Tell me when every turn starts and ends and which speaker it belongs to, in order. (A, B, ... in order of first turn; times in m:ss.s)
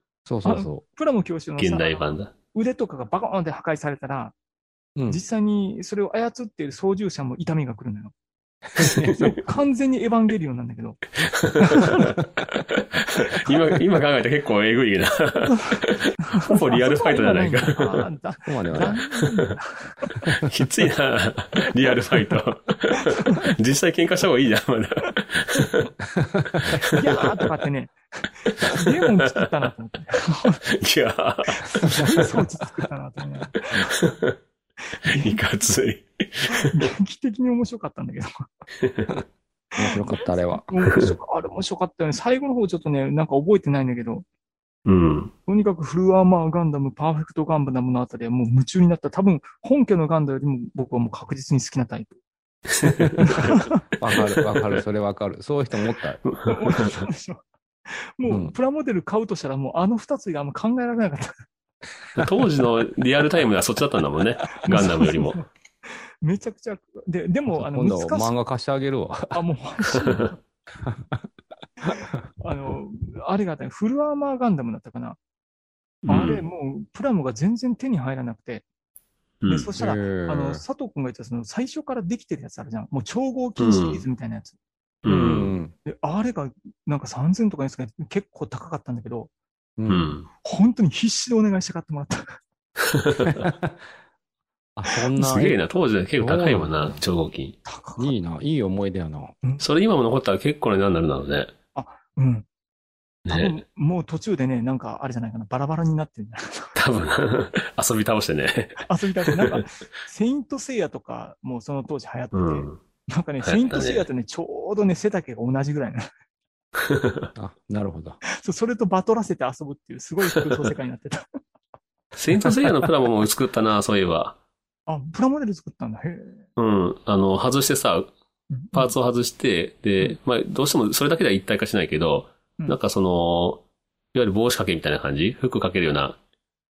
0:00.3-0:00.8 A
0:00.4-0:04.3 B
0:01.6-0:02.3 C
0:05.0-0:05.2 A
0:05.1-0:08.1 B
0:08.7-0:09.2 A
0:08.8-0:11.0 B
0:11.3-0:12.1 C
0:11.6-0:12.2 B
0:13.0-0:18.0 C
0:15.5-0:20.1 B
0:18.5-0:19.0 A
0:20.4-0:25.9 C
0:26.1-0:26.8 A
0:26.8-0:30.6 B
0:30.8-0:32.4 C
0:31.6-0:33.7 B
0:33.9-0:34.4 C
0:35.0-0:36.9 C
0:35.1-0:35.4 B
0:36.5-0:38.5 B
0:38.8-0:39.1 C
0:39.8-0:40.7 A
0:39.8-0:44.2 B
0:44.9-0:45.3 C
0:45.5-0:52.1 B
0:52.8-0:53.6 C
0:52.8-0:53.1 A
0:53.2-0:53.8 B
0:54.0-0:56.2 A
0:56.2-0:57.0 C
0:56.4-1:01.3 B
0:58.3-0:58.5 A
1:02.2-1:05.4 C
1:04.6-1:08.3 B
1:07.5-1:09.4 A
1:09.3-1:10.4 B
1:10.0-1:10.3 C
1:10.8-1:11.2 A
1:11.8-1:15.2 B
1:16.0-1:18.6 B
1:16.1-1:16.4 C
1:19.4-1:19.7 C
1:19.5-1:24.6 B
1:19.8-1:20.6 A
1:23.6-1:24.0 C
1:25.0-1:25.5 C
1:25.1-1:25.7 A
1:25.8-1:29.3 B
1:29.8-1:30.2 A
1:29.9-1:30.3 C
1:30.4-1:32.4 B
1:32.9-1:33.4 C
1:33.3-1:33.9 A
1:34.8-1:35.6 A
1:35.2-1:37.6 C
1:36.2-1:37.0 A
1:37.7-1:38.1 B
1:38.0-1:39.4 A
1:39.6-1:41.5 C
1:41.8-1:42.5 B
1:43.3-1:43.6 C
1:43.3-1:46.8 B
1:46.8-1:49.6 C
1:48.8-1:56.1 B
1:52.3-1:52.8 C
1:53.4-1:54.1 C
1:56.8-1:57.3 C
1:57.4-1:58.2 A
1:58.3-2:01.3 B
2:02.2-2:04.4 C
2:02.5-2:02.9 B
2:04.9-2:06.4 B
2:06.6-2:08.1 C
2:08.5-2:08.9 B
2:08.7-2:13.6 C
2:14.1-2:16.2 C